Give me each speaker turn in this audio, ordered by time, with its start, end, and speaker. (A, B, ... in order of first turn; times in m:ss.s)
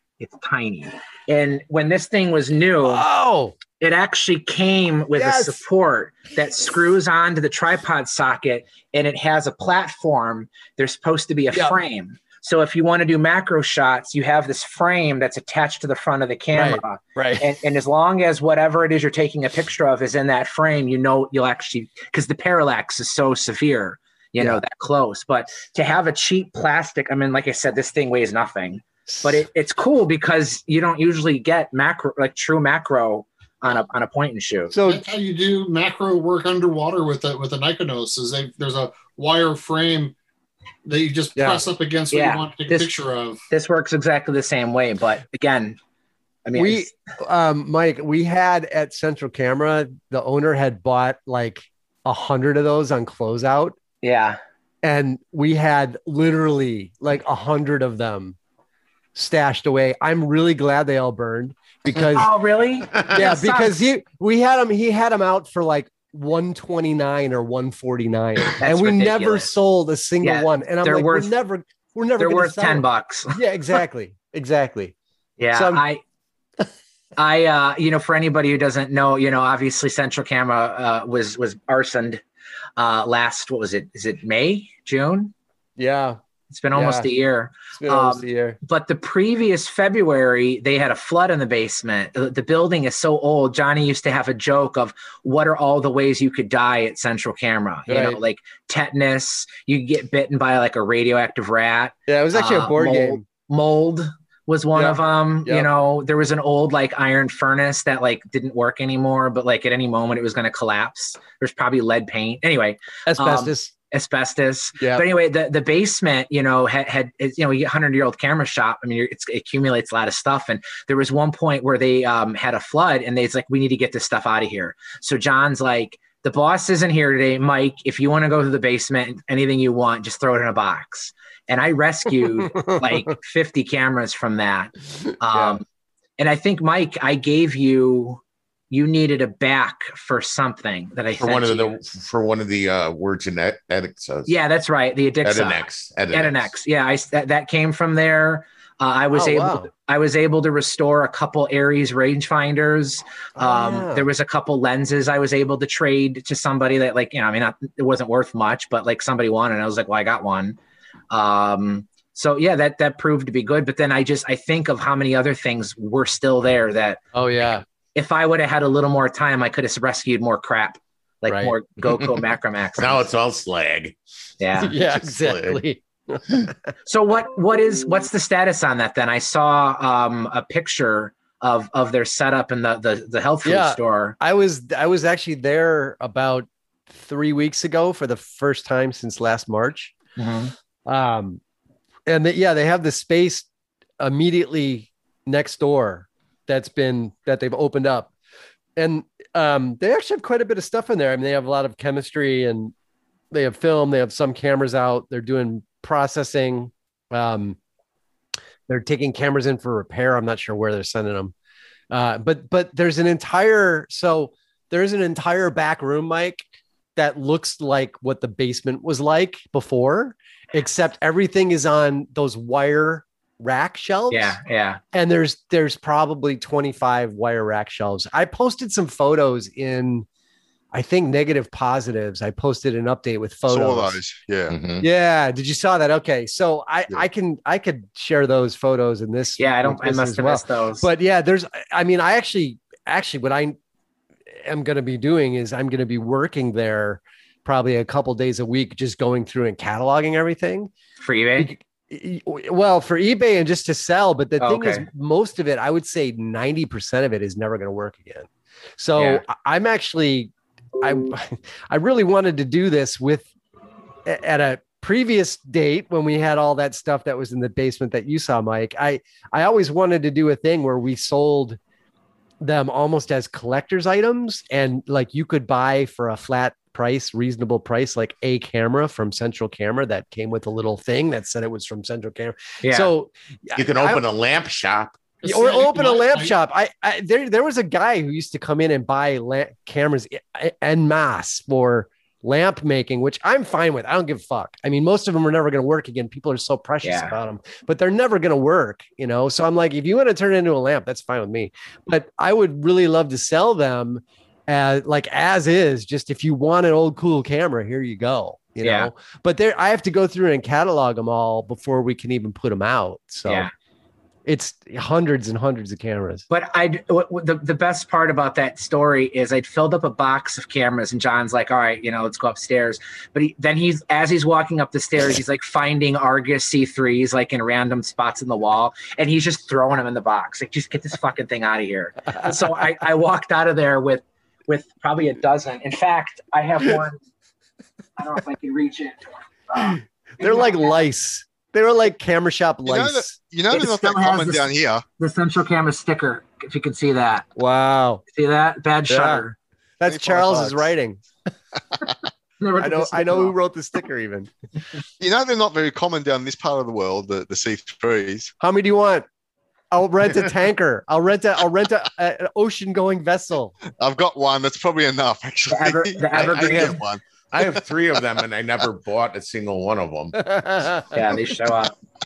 0:00.2-0:03.0 A
0:02.8-0:03.6 B
0:03.8-0:34.7 A
0:05.2-0:05.6 B
0:16.5-0:17.5 B
0:24.4-0:24.6 B
0:29.1-0:29.4 B
0:34.7-0:35.0 B
0:34.8-0:40.1 C
0:40.8-0:43.4 C
0:41.4-0:41.6 B
0:42.1-0:42.9 A
0:43.5-0:45.8 A
0:46.4-0:46.9 A
0:46.6-0:53.8 B
0:54.0-0:54.4 A
0:54.8-0:58.4 B
0:59.1-1:02.3 B
1:02.1-1:03.7 A
1:03.0-1:14.9 B
1:08.6-1:09.5 A
1:10.2-1:11.3 A
1:12.2-1:13.4 A
1:15.4-1:16.0 A
1:15.5-1:15.8 B
1:17.2-1:22.2 A
1:22.8-1:25.3 A
1:25.8-1:26.2 B
1:26.5-2:15.6 A
1:26.7-1:27.1 B
1:27.7-1:28.6 B
1:37.9-1:38.2 B
1:42.1-1:43.2 B
1:44.7-1:45.7 B
1:53.0-1:53.7 B
1:54.8-1:55.0 B
2:12.5-2:12.9 B
2:15.3-2:15.6 B
2:16.2-2:21.7 A
2:21.2-2:24.3 D
2:24.2-2:40.6 A
2:25.2-2:26.5 D
2:29.1-2:29.7 B
2:33.4-2:34.1 B
2:41.1-2:47.0 A
2:47.1-2:47.6 B
2:47.9-2:53.0 A
2:51.3-2:51.6 B
2:52.8-2:54.0 D
2:54.4-2:54.7 A
2:54.6-2:56.5 B
2:54.7-2:55.6 D
2:56.8-3:04.2 A
3:03.4-3:09.9 B
3:10.2-3:10.5 A
3:10.8-3:11.4 B
3:12.1-3:13.5 B
3:14.0-3:18.1 B
3:18.8-3:22.7 B
3:23.3-3:27.6 B
3:28.7-3:31.3 B
3:31.9-3:44.4 B
3:44.1-3:44.8 A
3:44.9-3:50.0 B
3:50.7-3:54.0 B
3:53.5-3:54.6 E
3:54.5-3:54.8 D
3:54.8-4:03.6 B
3:59.4-4:00.9 A
4:04.3-4:10.7 B
4:11.0-4:11.5 A
4:11.4-4:23.3 B
4:14.4-4:14.8 A
4:19.0-4:19.2 A
4:24.0-4:31.6 B
4:32.4-4:44.0 B
4:42.6-4:42.9 A
4:43.6-4:45.1 D
4:45.2-4:46.3 C
4:45.2-5:13.5 B
4:56.8-4:57.1 A
5:08.6-5:08.9 A
5:14.2-5:16.2 B
5:16.3-5:37.0 A
5:38.0-5:40.6 A
5:39.6-5:43.2 B
5:42.6-5:44.8 E
5:43.5-5:47.3 A
5:47.3-5:48.0 B
5:48.1-5:49.4 A
5:48.9-5:49.2 B
5:49.8-5:51.0 B
5:49.8-5:50.7 E
5:52.4-5:53.3 A
5:52.6-5:54.3 B
5:55.0-5:58.3 E
5:58.4-5:59.0 B
5:59.7-6:03.5 B
6:03.8-6:07.4 E
6:05.5-6:06.8 A
6:06.1-6:06.8 D
6:07.3-6:10.3 D
6:10.2-6:10.8 B
6:10.9-6:11.7 A